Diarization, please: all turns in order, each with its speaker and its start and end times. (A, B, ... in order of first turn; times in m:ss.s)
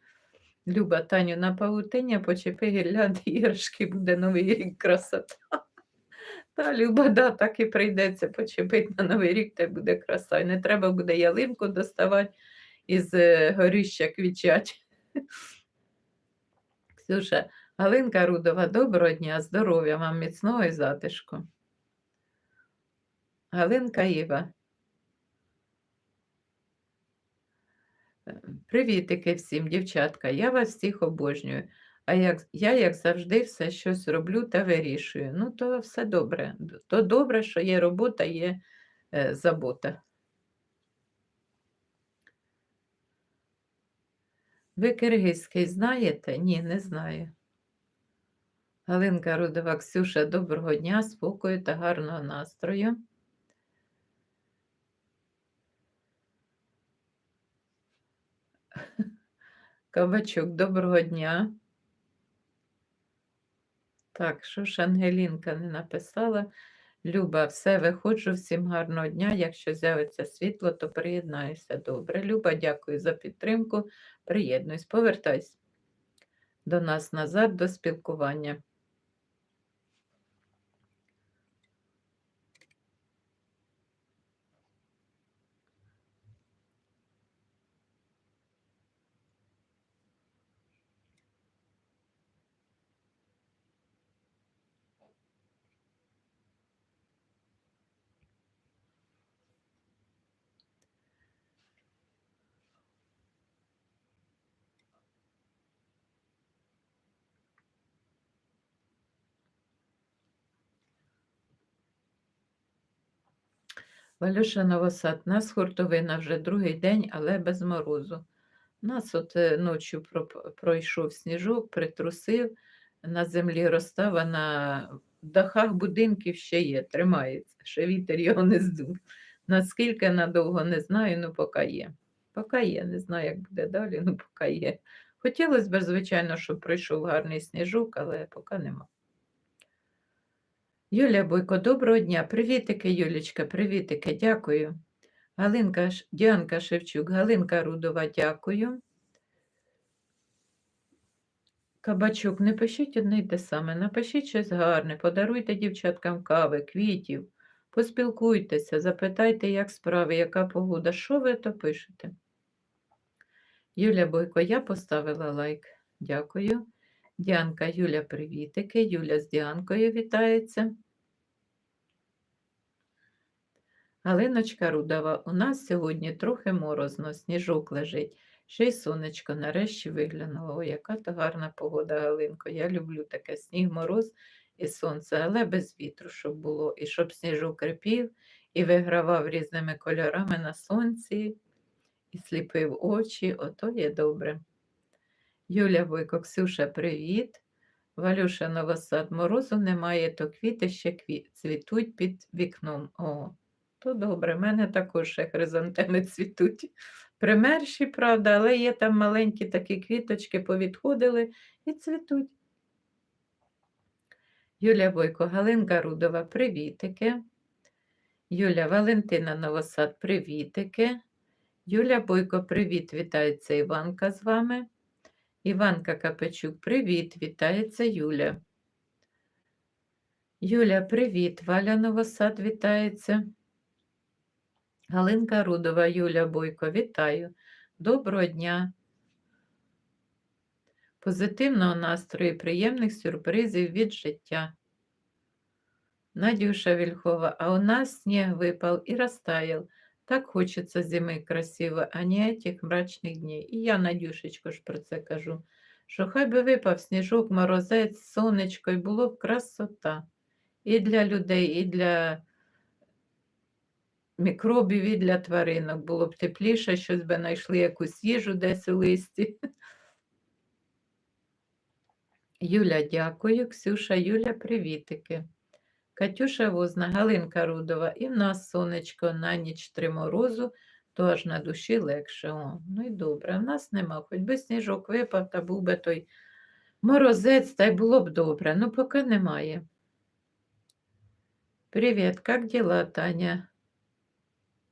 0:00.7-0:05.6 A
0:06.6-0:12.3 A
0:12.9-0:14.8 A
0:16.9-0:21.4 A
0:23.5-0:24.5 A
0:28.3-0:38.6 A
0:39.1-0:40.0 A
0:44.8-0:47.3 A
0:48.9-0:53.0 A
0:59.9-1:01.5 A
1:04.1-1:06.5 A
1:07.0-1:15.6 A
1:16.7-1:18.6 A
1:54.2-1:58.2 A
1:58.8-2:18.9 A
2:20.9-2:24.8 A
2:25.4-2:28.8 A
2:31.8-2:42.1 A
2:43.8-2:46.7 A
2:47.2-2:50.7 A
2:54.0-3:11.4 A
3:12.1-3:14.4 A
3:15.5-3:17.4 A
3:18.0-3:32.3 A
3:34.6-3:37.2 A
3:38.3-3:41.0 A
3:41.7-3:44.7 A
3:45.4-3:48.4 A
3:50.4-3:53.3 A
3:54.9-3:58.7 A
4:01.0-4:04.5 A
4:06.2-4:20.1 A
4:20.6-4:22.2 A
4:24.2-4:29.4 A
4:32.4-4:35.2 A
4:36.0-4:46.1 A
4:46.8-4:49.6 A
4:51.7-4:53.5 A